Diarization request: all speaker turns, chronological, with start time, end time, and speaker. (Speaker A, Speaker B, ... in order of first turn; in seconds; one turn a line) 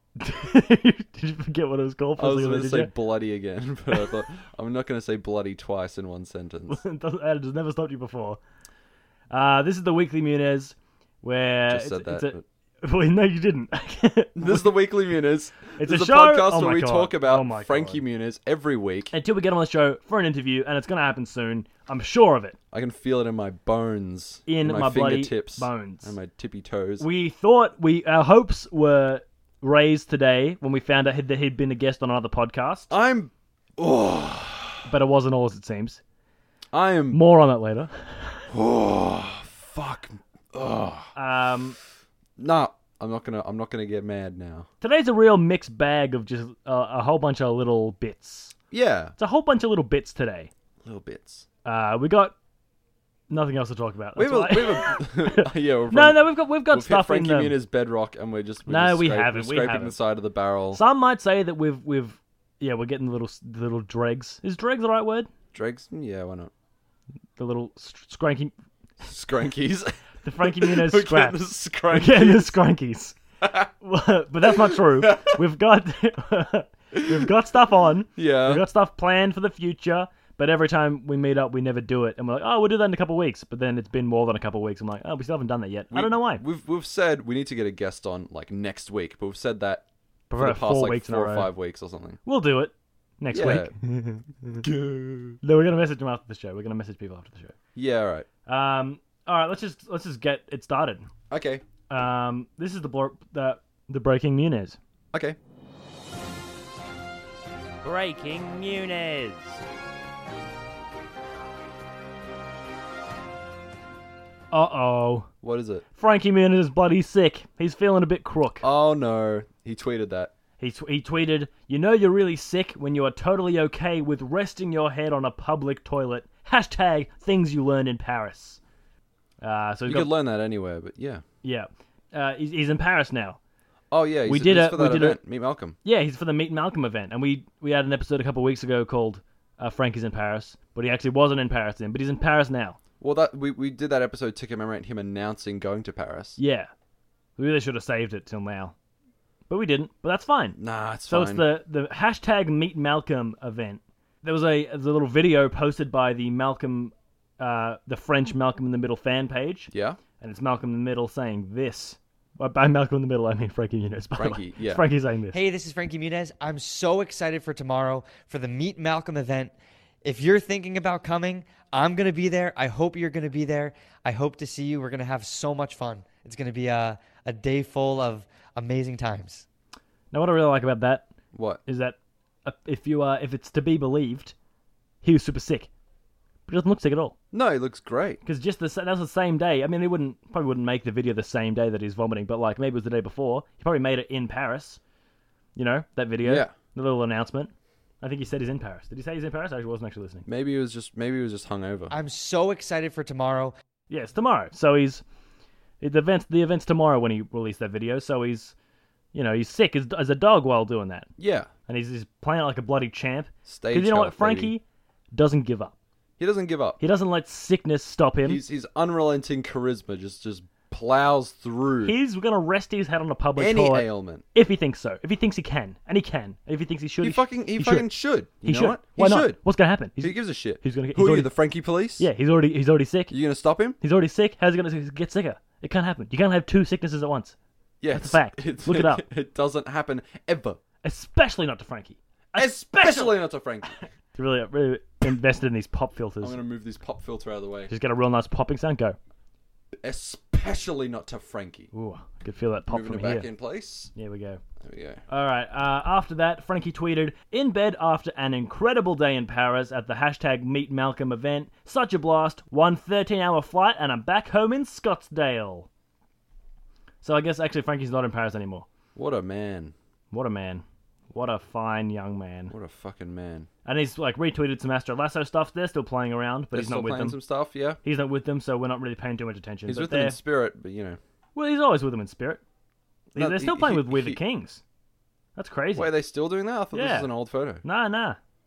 Speaker A: 0.2-2.9
Speaker B: 2.2-6.8
Speaker A: 6.7-8.4
Speaker A: 9.3-14.7
Speaker B: 11.7-12.4
Speaker B: 14.4-19.1
Speaker A: 15.8-18.0
Speaker A: 19.1-22.6
Speaker B: 22.7-27.1
Speaker A: 24.5-26.1
Speaker A: 27.0-32.9
Speaker B: 32.9-34.9
Speaker A: 34.9-36.0
Speaker B: 36.7-37.2
Speaker A: 37.1-38.5
Speaker B: 38.5-41.1
Speaker A: 41.1-41.8
Speaker B: 42.4-44.7
Speaker A: 44.8-48.6
Speaker B: 48.7-49.1
Speaker A: 49.2-50.5
Speaker B: 50.8-51.5
Speaker A: 51.6-52.4
Speaker A: 53.3-57.6
Speaker B: 54.2-60.8
Speaker A: 58.7-60.0
Speaker A: 60.7-65.3
Speaker B: 65.5-66.5
Speaker A: 67.4-68.5
Speaker B: 69.0-72.5
Speaker A: 70.2-71.4
Speaker A: 71.9-73.2
Speaker B: 73.4-73.7
Speaker A: 73.8-86.4
Speaker B: 74.4-75.4
Speaker B: 76.9-77.3
Speaker B: 78.2-78.6
Speaker B: 85.9-89.8
Speaker A: 90.3-91.5
Speaker B: 90.4-92.2
Speaker A: 92.2-94.7
Speaker B: 93.3-93.7
Speaker B: 94.6-95.4
Speaker A: 95.4-97.5
Speaker B: 97.8-98.3
Speaker A: 98.5-101.1
Speaker B: 101.3-101.6
Speaker A: 101.9-104.8
Speaker A: 107.8-109.6
Speaker A: 114.5-115.3
Speaker B: 115.4-115.8
Speaker A: 116.0-118.6
Speaker B: 118.6-120.3
Speaker A: 120.6-128.6
Speaker A: 129.4-130.1
Speaker B: 129.9-131.2
Speaker A: 131.4-133.4
Speaker B: 133.9-135.8
Speaker A: 134.3-135.2
Speaker A: 135.8-142.8
Speaker B: 143.0-146.4
Speaker A: 146.4-146.7
Speaker A: 147.4-148.7
Speaker A: 149.5-150.6
Speaker B: 150.6-151.4
Speaker A: 151.1-165.4
Speaker B: 159.7-160.0
Speaker B: 164.2-164.8
Speaker C: 165.3-169.5
Speaker C: 170.0-179.4
Speaker A: 180.1-181.1
Speaker B: 181.3-181.6
Speaker A: 181.7-184.3
Speaker A: 185.0-185.7
Speaker A: 186.5-187.1
Speaker B: 187.3-188.2
Speaker A: 188.2-194.8
Speaker A: 195.6-200.3
Speaker B: 196.2-196.5
Speaker B: 200.3-201.9
Speaker C: 201.9-203.5
Speaker A: 203.9-205.0
Speaker A: 205.8-208.6
Speaker A: 209.1-211.1
Speaker B: 211.2-211.5
Speaker A: 211.7-214.6
Speaker B: 213.5-214.5
Speaker A: 215.1-215.7
Speaker B: 216.2-216.8
Speaker A: 216.8-218.4
Speaker B: 218.2-221.9
Speaker A: 221.8-227.9
Speaker B: 223.4-224.2
Speaker B: 227.0-229.4
Speaker A: 228.4-231.3
Speaker B: 230.0-232.1
Speaker A: 232.0-233.1
Speaker B: 233.1-233.8
Speaker A: 233.8-237.3
Speaker B: 237.8-240.6
Speaker A: 237.9-239.1
Speaker A: 240.8-246.4
Speaker B: 242.4-243.8
Speaker B: 246.2-247.7
Speaker A: 247.7-249.0
Speaker B: 249.8-251.7
Speaker A: 251.7-253.3
Speaker B: 252.7-253.9
Speaker A: 253.9-254.4
Speaker B: 254.6-255.0
Speaker A: 255.1-265.7
Speaker A: 267.0-268.7
Speaker B: 268.9-269.7
Speaker A: 270.1-272.5
Speaker B: 272.5-273.5
Speaker A: 273.6-277.2
Speaker B: 276.5-277.8
Speaker A: 277.8-280.2
Speaker B: 279.7-281.0
Speaker A: 281.4-282.4
Speaker A: 283.1-284.6
Speaker B: 283.2-284.2
Speaker A: 285.4-285.9
Speaker B: 285.8-287.6
Speaker A: 286.7-287.1
Speaker A: 287.6-288.2